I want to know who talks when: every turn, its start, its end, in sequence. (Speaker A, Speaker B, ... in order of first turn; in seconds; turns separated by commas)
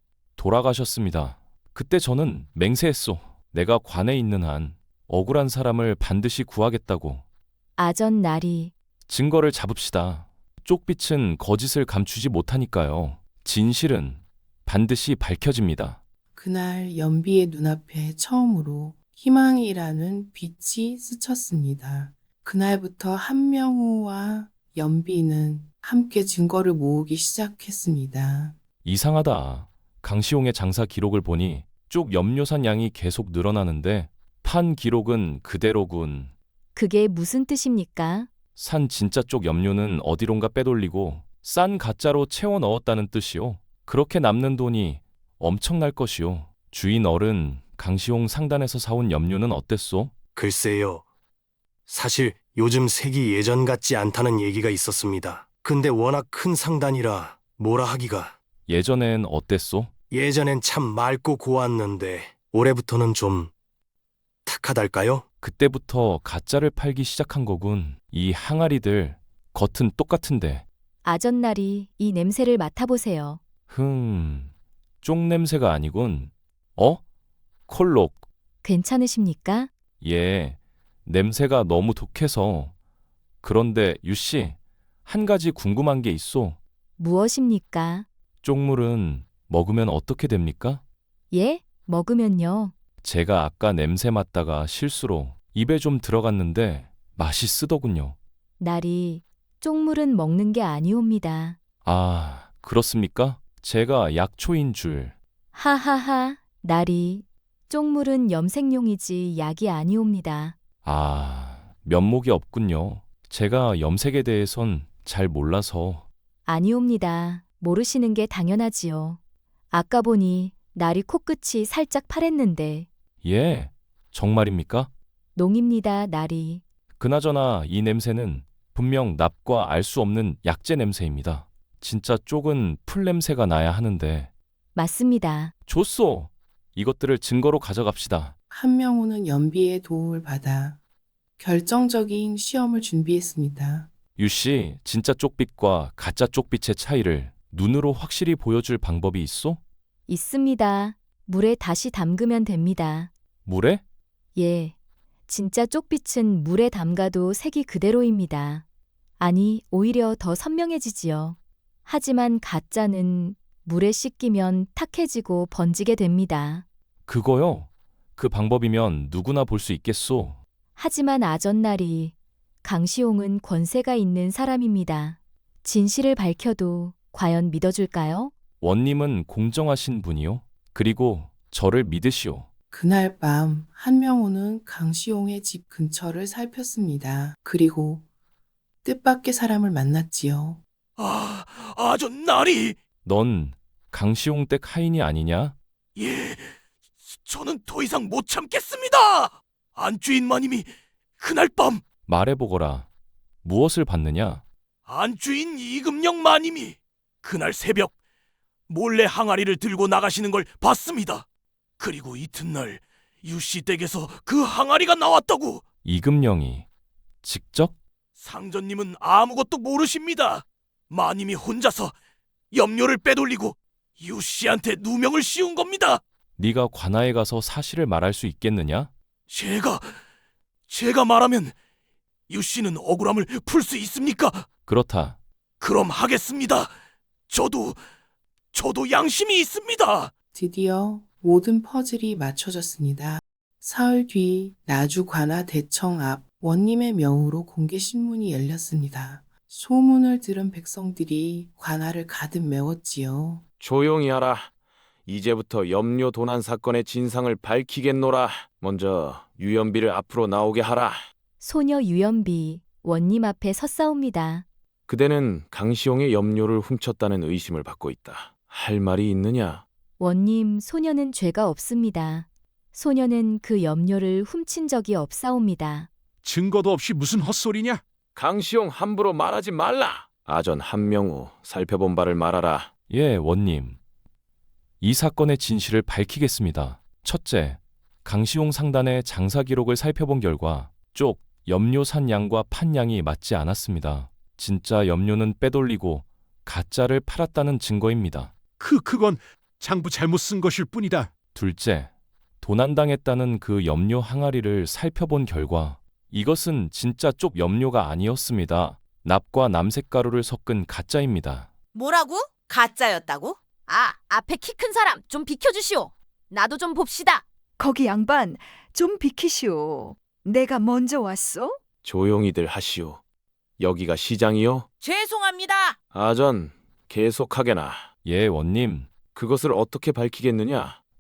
Speaker A: 0.4-7.2, Speaker B: 7.8-8.7, Speaker A: 9.1-16.0, Speaker C: 16.3-28.6, Speaker A: 28.8-36.3, Speaker B: 36.8-38.3, Speaker A: 38.6-50.1, Speaker D: 50.4-51.0, Speaker D: 51.9-58.4, Speaker A: 58.7-59.9, Speaker D: 60.1-63.5, Speaker D: 64.5-65.2, Speaker A: 65.4-70.6, Speaker B: 71.0-73.4, Speaker A: 73.7-74.5, Speaker A: 75.0-77.0, Speaker A: 77.7-78.2, Speaker B: 78.6-79.7, Speaker A: 80.0-82.7, Speaker A: 83.4-86.6, Speaker B: 87.0-88.1, Speaker A: 88.4-90.8, Speaker B: 91.3-92.7, Speaker A: 93.0-98.2, Speaker B: 98.6-101.6, Speaker A: 101.8-105.2, Speaker B: 105.5-110.6, Speaker A: 110.8-116.0, Speaker B: 116.5-119.2, Speaker B: 119.7-122.9, Speaker A: 123.2-124.9, Speaker B: 125.3-126.6, Speaker A: 127.0-134.3, Speaker B: 134.8-135.5, Speaker A: 135.7-138.3, Speaker C: 138.5-140.8, Speaker C: 141.4-143.9, Speaker A: 144.2-149.6, Speaker B: 150.1-153.1, Speaker A: 153.4-153.8, Speaker B: 154.4-154.7, Speaker B: 155.3-158.7, Speaker B: 159.2-166.7, Speaker A: 167.1-170.4, Speaker B: 170.8-172.1, Speaker B: 172.6-178.3, Speaker A: 178.6-182.5, Speaker C: 182.7-188.1, Speaker C: 188.8-190.6, Speaker E: 191.0-192.8, Speaker A: 193.0-195.6, Speaker E: 196.0-200.7, Speaker E: 201.2-201.8, Speaker A: 202.1-202.9, Speaker A: 203.4-204.4, Speaker E: 204.9-207.9, Speaker E: 208.7-211.3, Speaker E: 211.8-215.7, Speaker A: 215.8-216.7, Speaker A: 217.2-217.8, Speaker E: 218.2-221.9, Speaker E: 222.5-226.0, Speaker A: 226.4-228.9, Speaker E: 229.3-229.9, Speaker E: 230.7-231.6, Speaker E: 232.3-234.5, Speaker A: 234.7-235.2, Speaker E: 235.6-236.7, Speaker E: 237.3-237.8, Speaker E: 238.5-240.1, Speaker C: 240.3-253.4, Speaker F: 253.6-254.5, Speaker F: 255.1-261.1, Speaker B: 261.4-264.4, Speaker F: 264.9-269.6, Speaker B: 270.0-275.9, Speaker G: 276.2-277.8, Speaker F: 278.1-282.7, Speaker A: 282.9-283.8, Speaker A: 284.8-298.3, Speaker G: 298.6-301.1, Speaker A: 301.3-301.9, Speaker A: 302.4-311.5, Speaker H: 311.8-317.2, Speaker I: 317.6-321.6, Speaker F: 321.8-323.0, Speaker F: 323.6-324.7, Speaker H: 324.9-325.8, Speaker F: 325.9-327.9, Speaker A: 328.1-328.9, Speaker F: 329.1-330.8